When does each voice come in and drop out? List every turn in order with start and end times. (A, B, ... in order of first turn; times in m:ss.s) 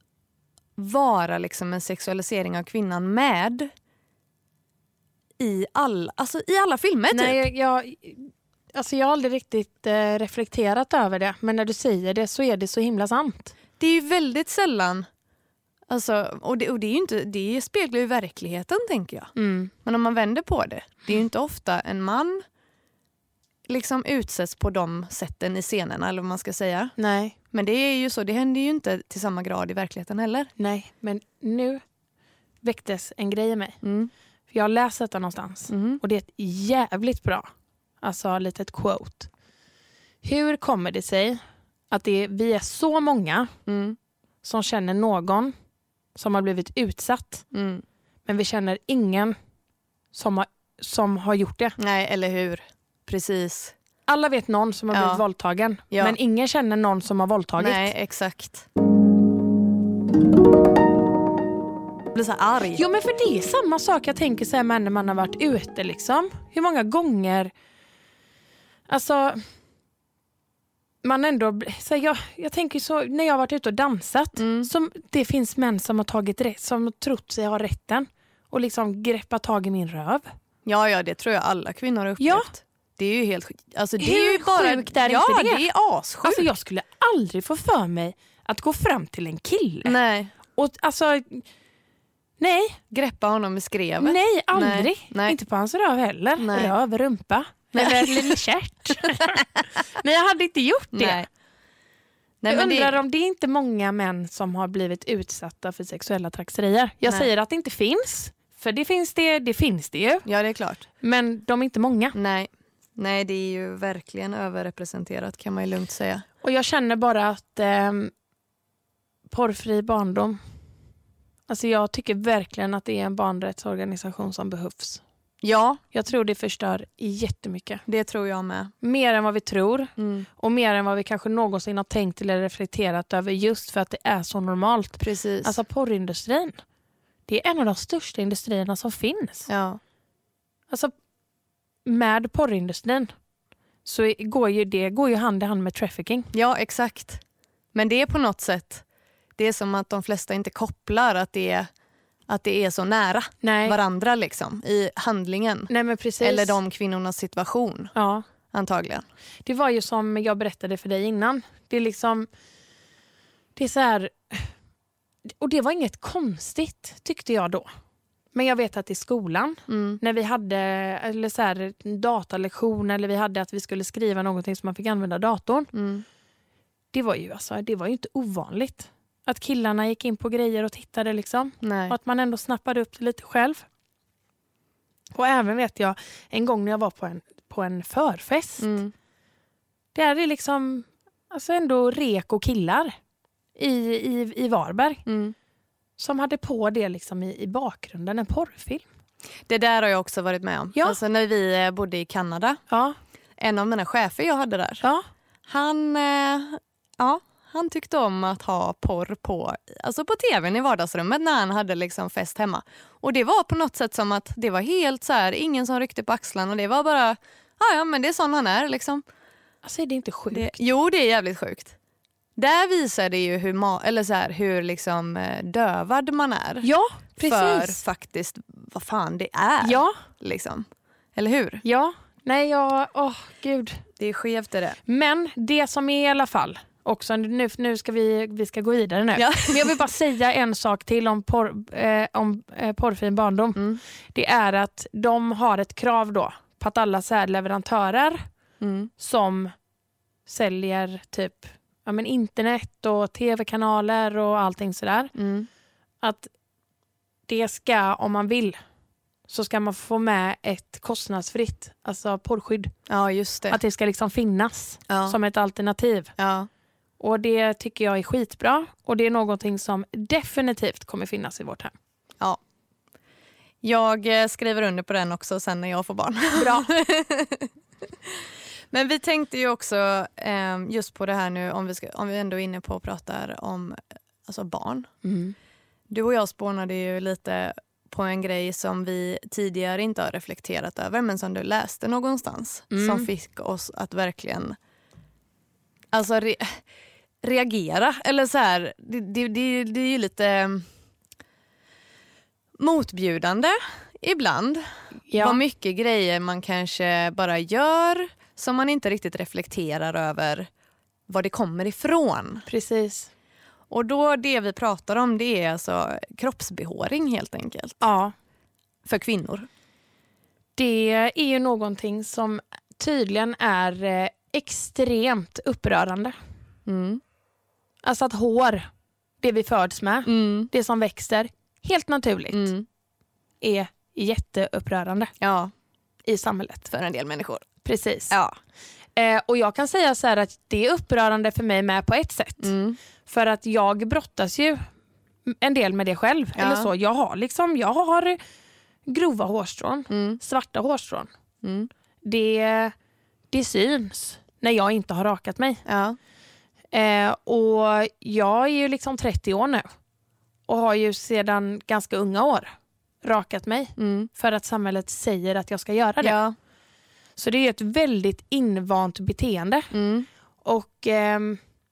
0:00.8-0:03.7 A
0:05.4-0:07.4 A
0:07.1-0:13.5 B
0:13.8-0:15.1 A
0:15.9-0:19.3 A
0:19.4-0:19.7 B
0:19.8-0:22.4 A
0:23.7-0:26.9 A
0:27.0-0:27.4 B
0:27.5-0:30.5 A
0:30.6-0:31.8 B
0:32.6-0:33.8 B
0:33.8-0:34.1 A
0:34.5-0:37.5 B
0:35.7-0:36.0 A
0:38.0-0:39.3 B
0:40.2-0:41.4 B
0:41.9-0:43.5 B
0:43.7-0:44.0 A
0:44.4-0:45.5 B
0:46.2-0:47.5 B
0:47.5-0:47.8 A
0:48.3-0:49.4 B
0:50.1-0:51.8 B
0:51.8-0:53.7 A
0:54.1-0:57.9 B
0:54.9-0:55.2 A
0:57.6-0:58.7 A
1:02.1-1:02.8 A
1:02.7-1:07.5 B
1:08.9-1:09.4 B
1:11.0-1:20.3 B
1:14.4-1:14.7 A
1:20.6-1:26.5 A
1:22.2-1:22.5 B
1:24.0-1:25.6 B
1:26.2-1:30.0 B
1:29.8-1:30.3 A
1:30.5-1:31.4 B
1:32.4-1:32.8 B
1:32.9-1:35.4 A
1:34.0-1:41.3 B
1:36.4-1:36.7 A
1:37.7-1:38.4 A
1:40.9-1:41.3 A
1:42.4-1:43.0 A
1:42.5-1:50.3 B
1:50.2-1:50.8 A
1:51.0-1:52.2 B
1:52.1-1:56.2 A
1:56.4-1:58.1 B
1:59.3-2:00.4 B
2:01.5-2:05.0 B
2:05.4-2:05.8 A
2:05.9-2:07.8 B
2:07.9-2:08.7 A
2:08.8-2:16.6 B
2:10.0-2:10.3 A
2:15.0-2:15.6 A
2:17.3-2:19.5 B
2:19.5-2:19.8 A
2:21.9-2:23.1 B
2:23.8-2:26.3 B
2:26.3-2:27.2 A
2:27.7-2:28.8 A
2:29.4-2:31.7 A
2:32.3-2:35.7 A
2:33.4-2:33.8 B
2:35.7-2:36.6 B
2:36.2-2:37.9 A
2:38.0-2:38.2 B
2:38.5-2:39.1 A
2:39.4-2:42.3 B
2:43.6-2:44.5 B
2:45.4-2:47.7 B
2:48.3-2:55.7 B
2:49.7-2:50.0 A
2:55.7-2:56.0 A
2:56.9-3:03.6 B
3:01.6-3:02.0 A
3:05.1-3:08.7 B
3:08.6-3:08.9 A
3:10.0-3:13.0 B
3:13.6-3:15.0 B
3:15.1-3:15.4 A
3:16.0-3:18.8 B
3:19.5-3:22.6 A
3:22.7-3:23.0 B
3:23.4-3:24.8 A
3:25.5-3:39.0 A
3:39.6-3:40.6 B
3:40.3-3:41.8 A
3:42.4-3:46.7 A
3:46.6-3:47.8 B
3:47.2-3:51.6 A
3:49.6-3:50.0 B
3:51.6-3:53.8 B
3:54.0-3:54.8 A
3:54.9-4:08.2 B
3:59.2-3:59.8 A
4:08.6-4:08.9 A
4:09.0-4:09.5 B
4:10.3-4:15.1 B
4:15.2-4:15.5 A
4:16.0-4:16.3 B
4:17.3-4:18.6 B
4:19.3-4:22.7 B
4:22.9-4:23.6 A
4:23.5-4:26.1 B
4:24.9-4:25.2 A
4:26.2-4:26.5 A
4:27.0-4:31.7 B
4:33.6-4:37.5 A
4:36.4-4:36.7 B
4:38.1-4:44.9 A
4:45.0-4:45.4 B
4:45.9-4:54.6 A
4:52.7-4:53.1 B
4:55.9-4:56.6 A
4:57.2-5:00.7 A
5:02.6-5:04.6 A
5:05.1-5:05.4 B
5:05.2-5:10.5 A
5:11.1-5:12.5 A
5:12.5-5:13.1 B
5:13.7-5:17.8 A
5:17.8-5:18.1 B
5:18.8-5:19.5 A
5:20.6-5:26.1 B
5:26.7-5:27.0 A
5:27.8-5:28.7 B
5:29.2-5:32.5 B
5:30.1-5:30.5 A
5:32.3-5:32.7 A
5:33.4-5:35.1 B
5:35.2-5:35.5 A
5:36.0-5:36.7 B
5:36.7-5:37.5 A
5:37.6-5:38.2 B
5:38.1-5:38.4 A
5:39.0-5:42.5 B
5:42.4-5:42.8 A
5:43.1-5:44.6 B
5:45.3-5:48.2 B
5:46.4-5:46.7 A
5:48.9-5:51.1 B
5:49.9-5:50.2 A
5:51.4-5:51.7 A
5:52.0-5:52.7 B
5:53.3-5:55.6 B
5:55.7-5:56.0 A
5:56.7-5:59.7 B
6:00.5-6:02.5 B
6:03.0-6:06.2 B
6:03.8-6:04.1 A
6:06.0-6:06.4 A
6:07.2-6:09.7 B
6:09.7-6:10.1 A
6:10.4-6:11.4 B